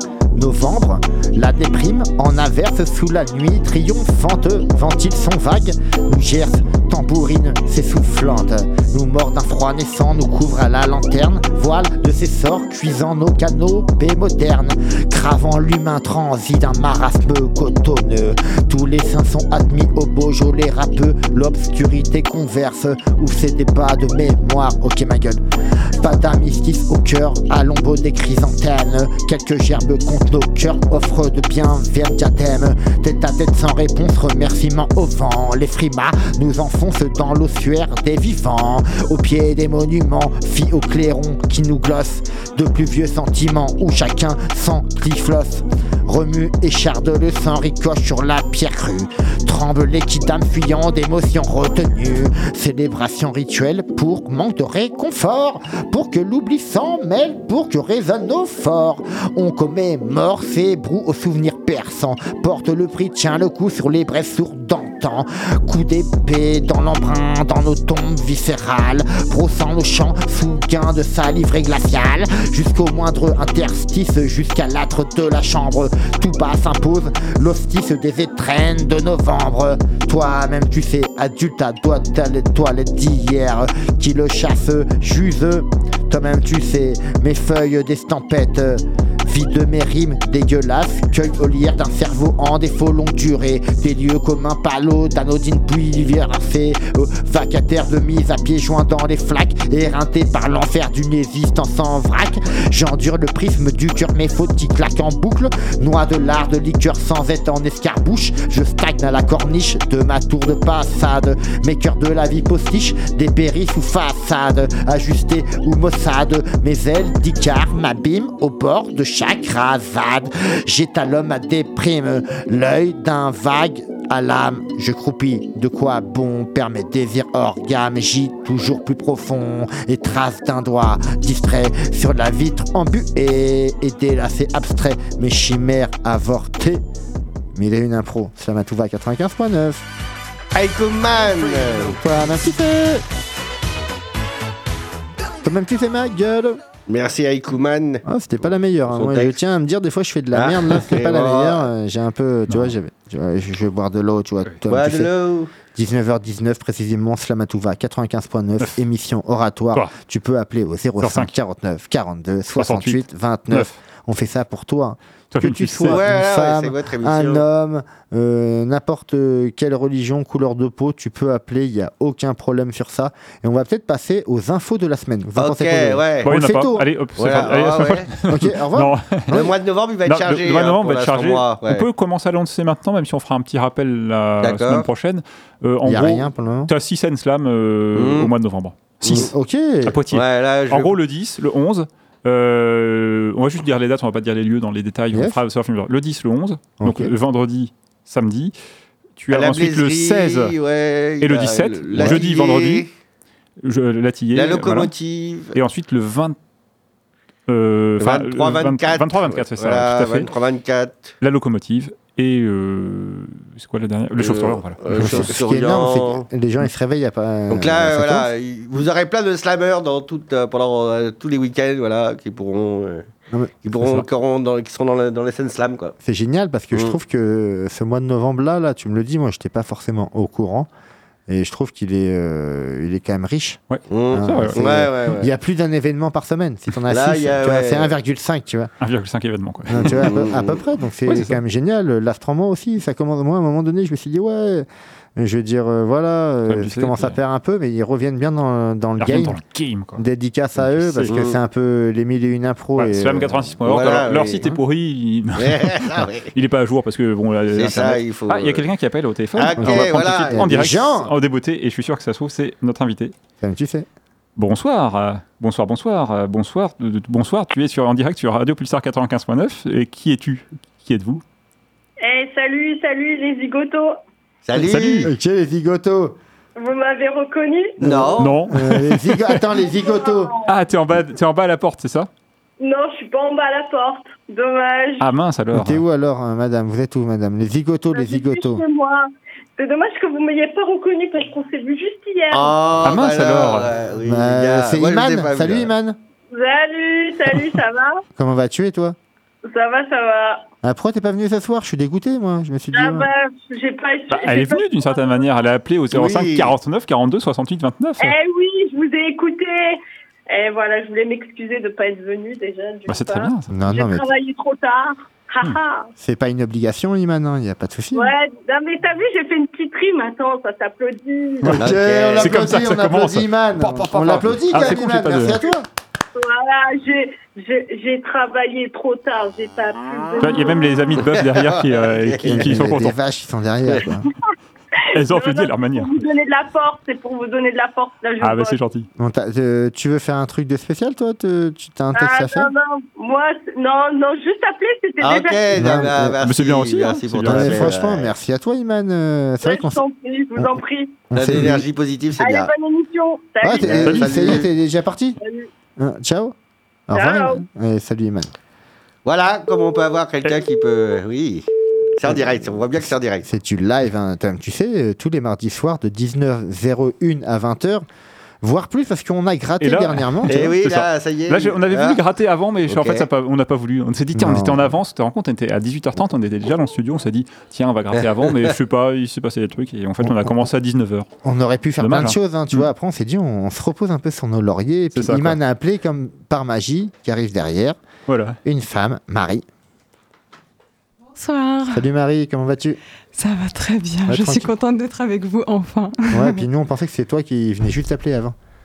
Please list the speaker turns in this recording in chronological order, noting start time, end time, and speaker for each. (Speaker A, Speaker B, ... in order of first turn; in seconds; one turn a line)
Speaker A: 0.3-25.4
Speaker A: 25.9-136.8
Speaker A: 137.5-139.8
Speaker B: 140.5-142.0
Speaker A: 141.8-143.0
Speaker A: 145.4-146.6
Speaker B: 146.9-148.0
Speaker A: 148.1-155.1
Speaker B: 148.9-149.4
Speaker B: 150.3-151.7
Speaker B: 154.7-155.5
Speaker A: 155.7-176.9
Speaker C: 161.0-161.3
Speaker C: 162.6-163.8
Speaker C: 165.3-166.0
Speaker B: 165.9-167.4
Speaker B: 175.4-176.3
Speaker C: 176.2-179.3
Speaker B: 177.2-178.1
Speaker A: 178.3-179.5
Speaker B: 179.3-181.9
Speaker C: 180.1-189.3
Speaker B: 184.4-184.9
Speaker A: 185.8-186.7
Speaker B: 187.9-188.3
Speaker B: 189.0-189.3
Speaker A: 189.1-189.9
Speaker C: 189.8-198.6
Speaker B: 190.1-190.9
Speaker A: 195.1-195.4
Speaker A: 196.8-197.1
Speaker C: 199.2-200.5
Speaker B: 199.3-202.9
Speaker C: 201.2-202.8
Speaker C: 203.6-204.9
Speaker B: 204.3-205.6
Speaker C: 205.5-206.4
Speaker C: 207.5-210.3
Speaker B: 208.0-211.1
Speaker C: 211.2-215.3
Speaker B: 214.2-216.3
Speaker A: 214.9-218.3
Speaker B: 217.5-223.1
Speaker B: 223.6-225.9
Speaker A: 226.0-230.7
Speaker A: 231.3-238.7
Speaker C: 233.7-234.6
Speaker B: 233.9-235.3
Speaker B: 236.9-237.9
Speaker C: 238.8-240.1
Speaker A: 239.7-249.4
Speaker B: 239.8-240.6
Speaker C: 241.1-241.4
Speaker C: 246.5-247.2
Speaker C: 249.0-250.0
Speaker A: 249.9-253.6
Speaker C: 250.6-251.1
Speaker B: 251.1-251.4
Speaker C: 252.8-263.1
Speaker B: 253.7-254.5
Speaker B: 255.4-256.3
Speaker B: 257.6-258.6
Speaker B: 259.4-260.4
Speaker A: 259.6-261.1
Speaker A: 263.4-263.9
Speaker C: 264.4-271.2
Speaker D: 272.0-273.9
Speaker B: 274.4-275.1
Speaker C: 274.6-275.1
Speaker A: 275.0-276.1
Speaker D: 276.6-277.7
Speaker B: 277.8-278.4
Speaker A: 277.8-280.3
Speaker C: 278.2-279.4
Speaker D: 279.7-280.3
Speaker C: 280.4-282.1
Speaker D: 282.6-285.1
Speaker C: 285.0-285.8
Speaker A: 285.5-288.6
Speaker D: 287.9-289.1
Speaker D: 289.6-292.6
Speaker B: 292.3-295.7
Speaker C: 292.8-293.7
Speaker A: 294.0-296.0
Speaker D: 296.3-298.0
Speaker A: 298.1-298.9
Speaker D: 299.5-300.4
Speaker A: 300.6-303.1
Speaker D: 302.7-305.3
Speaker C: 304.1-308.1
Speaker B: 305.9-306.5
Speaker D: 308.0-309.8
Speaker D: 310.3-315.9
Speaker C: 312.9-313.5
Speaker A: 313.5-314.1
Speaker A: 316.0-318.1
Speaker D: 317.9-321.6
Speaker A: 321.5-325.7
Speaker B: 321.6-322.3
Speaker C: 322.2-325.4
Speaker D: 326.1-330.8
Speaker C: 330.2-332.9
Speaker B: 331.1-332.6
Speaker A: 332.2-334.1
Speaker D: 334.8-338.6
Speaker C: 334.9-335.9
Speaker C: 338.2-338.9
Speaker A: 339.0-342.5
Speaker D: 341.9-345.6
Speaker B: 345.0-348.1
Speaker A: 345.5-346.2
Speaker C: 346.2-347.7
Speaker A: 347.2-349.8
Speaker D: 349.4-351.0
Speaker A: 350.4-351.6
Speaker B: 351.1-352.5
Speaker D: 352.2-353.8
Speaker A: 353.4-355.2
Speaker B: 353.6-354.4
Speaker C: 353.8-354.3
Speaker D: 355.2-355.5
Speaker A: 355.8-356.4
Speaker A: 356.9-358.3
Speaker D: 356.9-357.4
Speaker B: 359.1-361.4
Speaker B: 362.0-363.2
Speaker A: 362.8-367.9
Speaker A: 368.4-370.5
Speaker C: 369.6-381.1
Speaker B: 370.3-372.0
Speaker B: 372.7-373.1
Speaker A: 374.1-374.7
Speaker B: 378.0-378.5
Speaker A: 380.0-380.4
Speaker A: 381.2-387.8
Speaker C: 381.8-382.6
Speaker C: 384.9-385.4
Speaker C: 388.1-388.4
Speaker A: 388.4-389.4
Speaker E: 391.1-391.9
Speaker A: 391.7-392.8
Speaker E: 393.1-396.4
Speaker A: 394.1-394.5
Speaker A: 396.1-398.4